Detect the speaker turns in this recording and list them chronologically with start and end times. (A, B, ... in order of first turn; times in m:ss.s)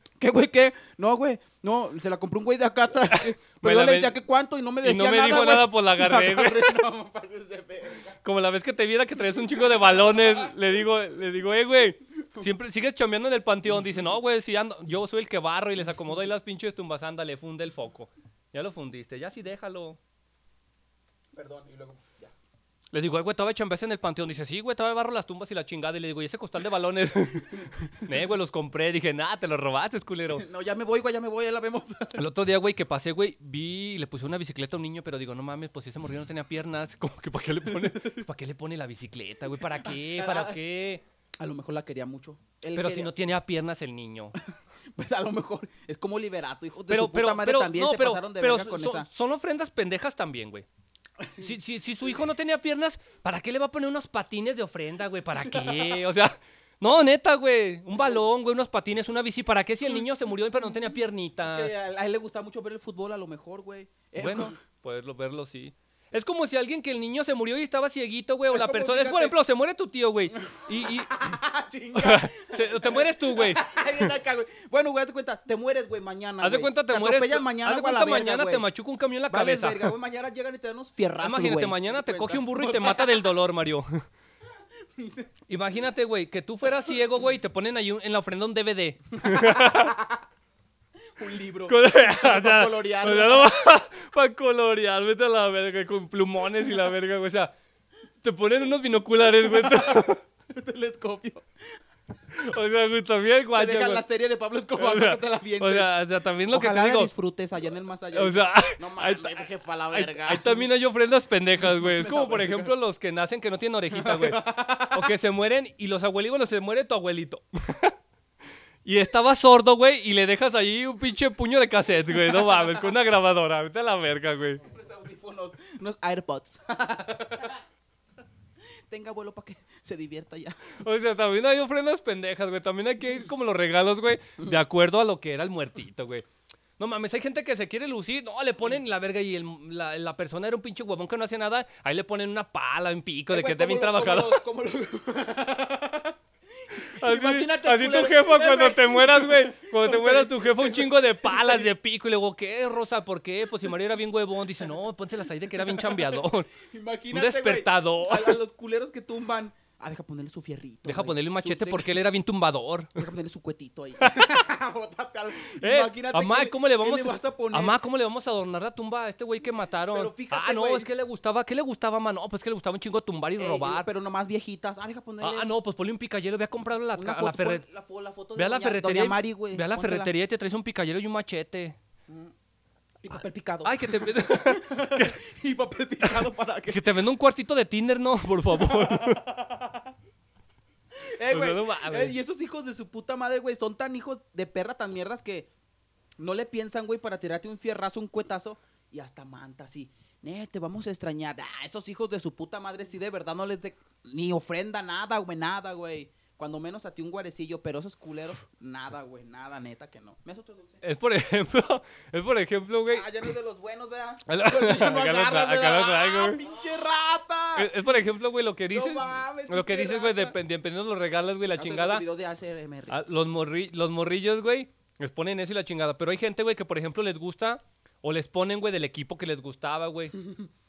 0:00.2-0:08.2 A
0:03.1-0:04.2 B
0:04.8-0:06.8 B
0:08.2-0:20.0 B
0:09.6-0:10.5 A
0:21.3-0:22.3 A
0:22.9-0:30.4 B
0:30.3-0:32.3 A
0:32.2-0:41.0 B
0:37.7-0:38.3 A
0:39.8-0:40.6 A
0:41.4-0:43.1 A
0:42.8-0:44.4 B
0:45.0-0:49.1 A
0:46.9-0:50.7 B
0:51.4-1:01.8 B
1:01.4-1:04.6 A
1:04.2-1:11.4 B
1:08.5-1:09.4 A
1:10.3-1:18.7 A
1:11.9-1:14.1 B
1:16.4-1:19.9 B
1:19.3-1:23.2 A
1:21.2-1:23.9 B
1:25.0-1:25.3 A
1:25.5-1:30.0 B
1:29.2-1:30.2 A
1:31.2-1:33.6 A
1:31.7-1:37.5 B
1:38.2-1:40.2 B
1:39.5-1:41.4 A
1:42.3-1:44.0 B
1:43.5-1:46.0 A
1:44.8-1:47.1 B
1:46.5-1:50.7 A
1:48.1-1:58.0 B
1:51.6-1:52.7 A
1:53.9-1:55.1 A
1:58.8-2:04.6 B
2:04.6-2:07.6 A
2:08.9-2:10.6 A
2:10.8-2:16.2 B
2:16.8-2:24.4 B
2:23.3-2:31.7 A
2:26.8-2:36.5 B
2:35.6-2:42.0 A
2:37.1-2:38.4 B
2:40.9-2:43.0 B
2:43.0-2:47.8 A
2:44.0-2:44.4 B
2:45.6-2:53.9 B
2:49.9-2:50.9 A
2:53.4-2:55.6 A
2:55.2-2:57.6 B
2:56.9-3:00.1 A
2:58.4-3:01.8 B
3:02.1-3:02.3 A
3:03.0-3:07.0 A
3:03.6-3:05.2 B
3:06.0-3:09.2 B
3:08.6-3:09.9 A
3:11.0-3:15.5 A
3:11.3-3:12.2 B
3:16.2-3:30.8 A
3:30.8-3:33.1 B
3:32.9-3:37.7 A
3:34.3-3:36.4 B
3:37.6-3:42.1 B
3:38.7-3:40.4 A
3:41.6-3:43.0 A
3:42.9-3:50.2 B